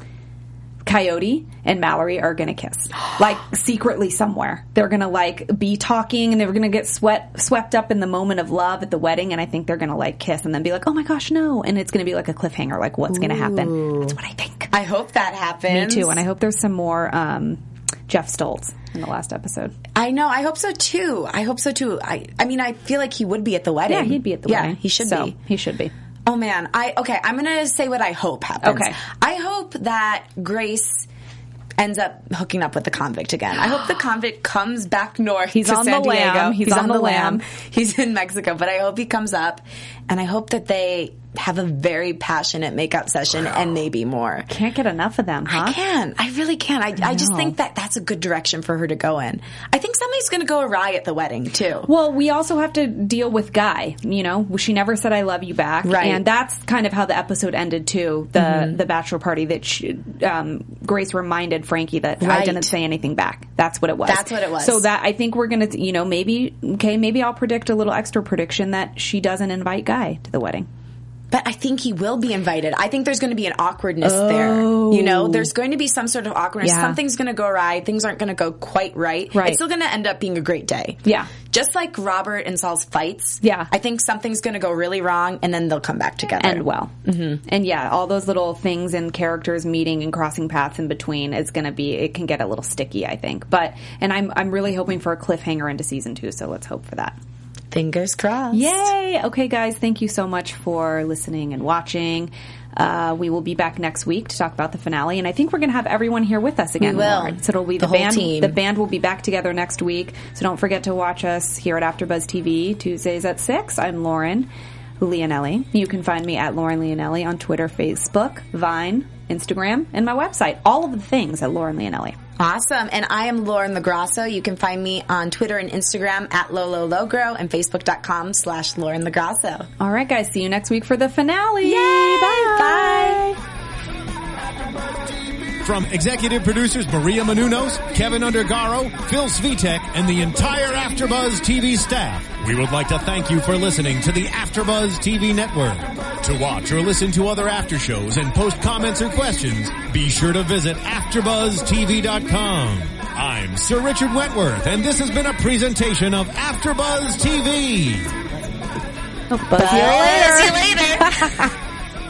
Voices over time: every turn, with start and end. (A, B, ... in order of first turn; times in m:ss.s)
0:00.8-0:14.7 A
0:13.1-0:14.1 B
0:14.7-0:16.2 B
0:15.7-0:19.7 A
0:19.9-0:25.3 B
0:23.9-0:25.9 A
0:26.2-0:31.0 B
0:28.6-0:29.0 A
0:31.8-0:44.5 B
0:35.5-0:37.4 A
0:44.5-0:45.8 A
0:45.5-0:51.9 B
0:47.0-0:47.5 A
0:51.8-1:10.7 A
0:55.8-0:56.2 B
0:58.4-0:58.8 B
1:02.2-1:02.7 B
1:04.0-1:04.8 B
1:11.3-1:27.4 B
1:14.0-1:15.5 A
1:16.6-1:17.0 A
1:19.3-1:19.6 A
1:21.0-1:21.3 A
1:23.4-1:23.7 A
1:26.4-1:26.9 A
1:27.4-1:37.2 A
1:37.7-1:38.9 B
1:38.5-1:54.5 A
1:46.8-1:48.6 B
1:55.0-2:02.2 A
2:02.4-2:09.7 B
2:09.8-2:13.3 A
2:11.6-2:13.4 B
2:15.6-2:38.1 C
2:39.3-2:41.4 A
2:39.5-2:41.1 B